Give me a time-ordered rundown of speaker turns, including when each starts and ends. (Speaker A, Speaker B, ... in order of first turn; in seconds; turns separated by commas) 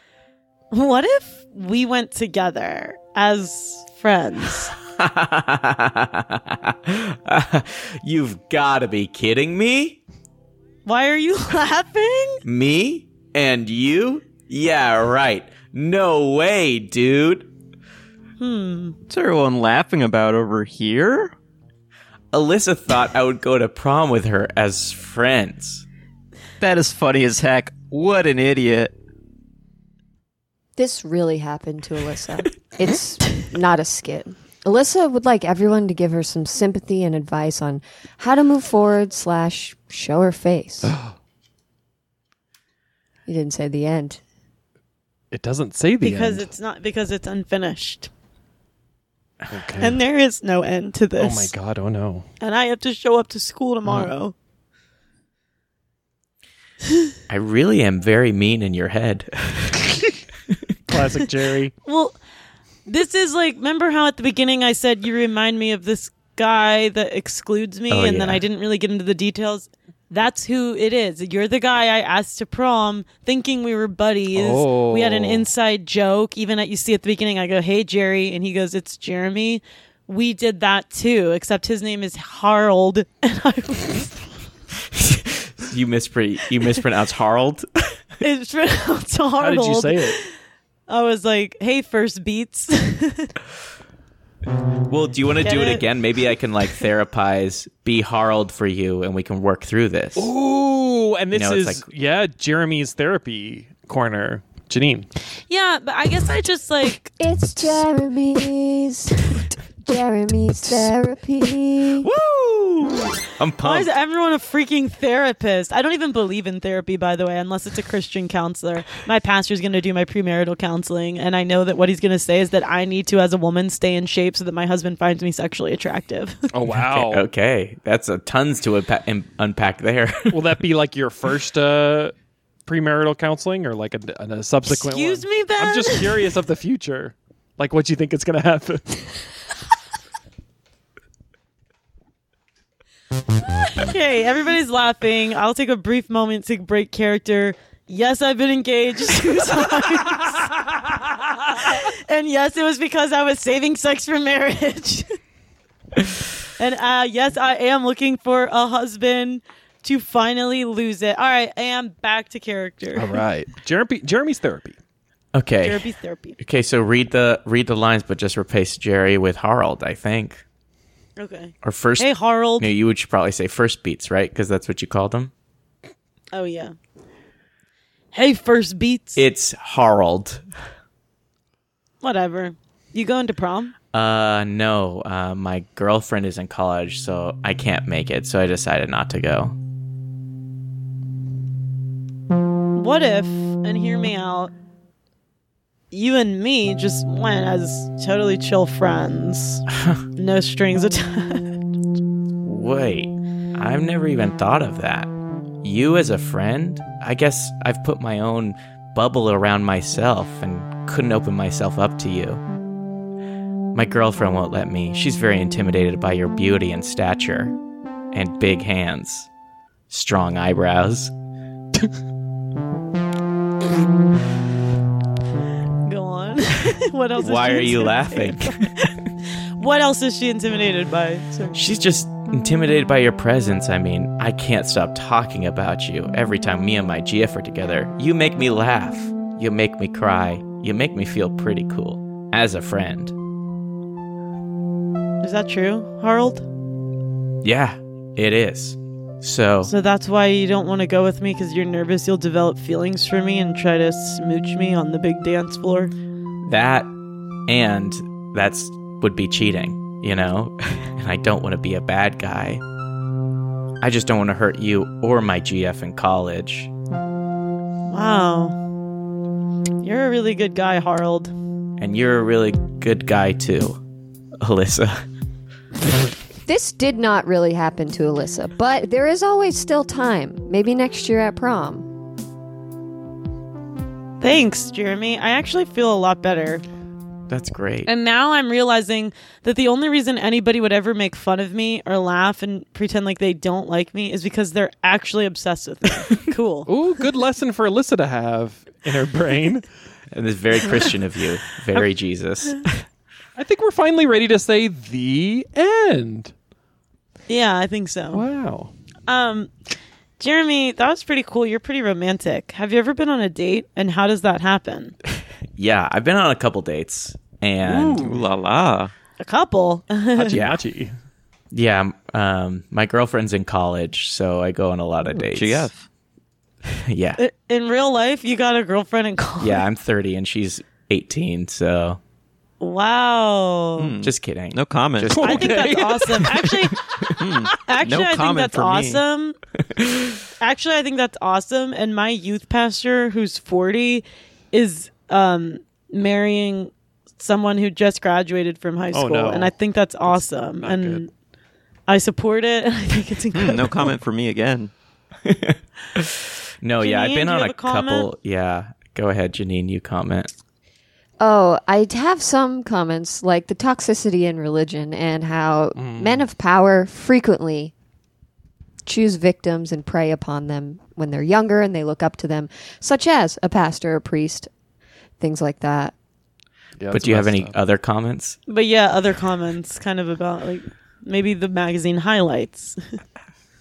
Speaker A: 0.7-4.7, Speaker B: 4.9-10.0, Speaker A: 10.9-12.4, Speaker B: 12.4-17.5, Speaker A: 18.4-19.0, Speaker C: 19.1-21.3, Speaker B: 22.3-25.9, Speaker C: 26.6-28.9, Speaker D: 30.8-40.9, Speaker E: 40.8-41.1, Speaker D: 43.3-44.2, Speaker E: 45.3-46.5, Speaker A: 46.0-48.1, Speaker E: 49.5-50.0, Speaker A: 49.8-51.5, Speaker E: 51.2-52.3, Speaker A: 52.4-54.3, Speaker B: 57.3-59.9, Speaker E: 60.9-61.7, Speaker A: 61.9-62.2, Speaker A: 62.9-84.2, Speaker B: 67.9-68.4, Speaker E: 74.3-75.5, Speaker B: 84.9-87.7, Speaker A: 88.2-90.2, Speaker E: 89.4-90.2, Speaker A: 90.9-93.3, Speaker B: 94.9-100.3, Speaker A: 95.4-95.9, Speaker E: 100.2-105.1, Speaker B: 101.3-101.9, Speaker A: 105.5-107.1, Speaker D: 107.2-112.1, Speaker B: 112.4-112.7, Speaker B: 113.4-113.9, Speaker A: 113.6-126.4, Speaker E: 126.5-127.3, Speaker B: 126.7-130.5, Speaker E: 130.3-132.1, Speaker E: 132.7-139.2, Speaker A: 134.7-136.3, Speaker A: 143.8-150.7, Speaker A: 151.5-155.1, Speaker A: 156.6-163.2, Speaker E: 163.0-164.8, Speaker B: 165.3-165.8, Speaker A: 165.6-166.4, Speaker B: 166.4-170.4, Speaker A: 171.2-172.7, Speaker B: 171.6-175.3, Speaker A: 176.3-176.7, Speaker A: 178.1-179.2, Speaker B: 179.2-180.4, Speaker A: 182.0-183.7, Speaker B: 183.9-189.6, Speaker A: 192.8-194.5, Speaker A: 195.9-199.6, Speaker A: 200.2-201.6, Speaker B: 202.4-205.1, Speaker B: 205.6-212.4, Speaker B: 213.7-217.6, Speaker B: 218.1-219.3, Speaker B: 219.9-221.1, Speaker A: 225.9-228.9, Speaker B: 227.2-228.6, Speaker A: 229.6-231.7, Speaker B: 231.5-243.2, Speaker A: 245.2-246.5, Speaker B: 247.4-249.7, Speaker A: 249.7-255.9, Speaker B: 256.5-256.9, Speaker B: 257.5-262.6, Speaker B: 263.8-266.7, Speaker A: 267.9-268.6, Speaker A: 269.8-271.3, Speaker B: 271.8-273.8, Speaker B: 274.4-275.0, Speaker D: 276.4-281.9, Speaker A: 284.2-286.6, Speaker B: 287.3-287.9, Speaker A: 287.9-296.7, Speaker E: 296.7-299.7, Speaker B: 300.1-302.8, Speaker E: 303.4-306.3, Speaker A: 307.3-308.2, Speaker E: 308.1-308.7, Speaker A: 309.1-309.5, Speaker A: 310.2-314.9, Speaker B: 315.6-318.1, Speaker C: 317.7-318.9, Speaker A: 317.8-318.1, Speaker A: 319.2-320.4, Speaker E: 320.1-320.9, Speaker B: 320.3-320.6, Speaker B: 321.5-325.7, Speaker C: 325.1-325.9, Speaker B: 326.7-327.2, Speaker A: 327.2-329.6, Speaker B: 329.4-332.0, Speaker A: 332.6-333.9, Speaker C: 333.8-335.2, Speaker B: 334.0-335.8, Speaker E: 335.1-336.7, Speaker A: 335.2-336.8, Speaker C: 337.2-339.0, Speaker A: 337.6-339.4, Speaker B: 339.8-340.2, Speaker A: 340.4-351.1, Speaker E: 348.9-349.6, Speaker E: 350.1-351.0, Speaker A: 351.9-353.9, Speaker C: 353.4-354.7, Speaker B: 355.2-360.3, Speaker A: 356.8-358.1, Speaker D: 361.2-367.7, Speaker E: 365.8-366.2, Speaker D: 368.9-374.5, Speaker D: 375.2-375.9, Speaker E: 376.8-377.6, Speaker B: 376.9-378.4, Speaker A: 378.5-382.8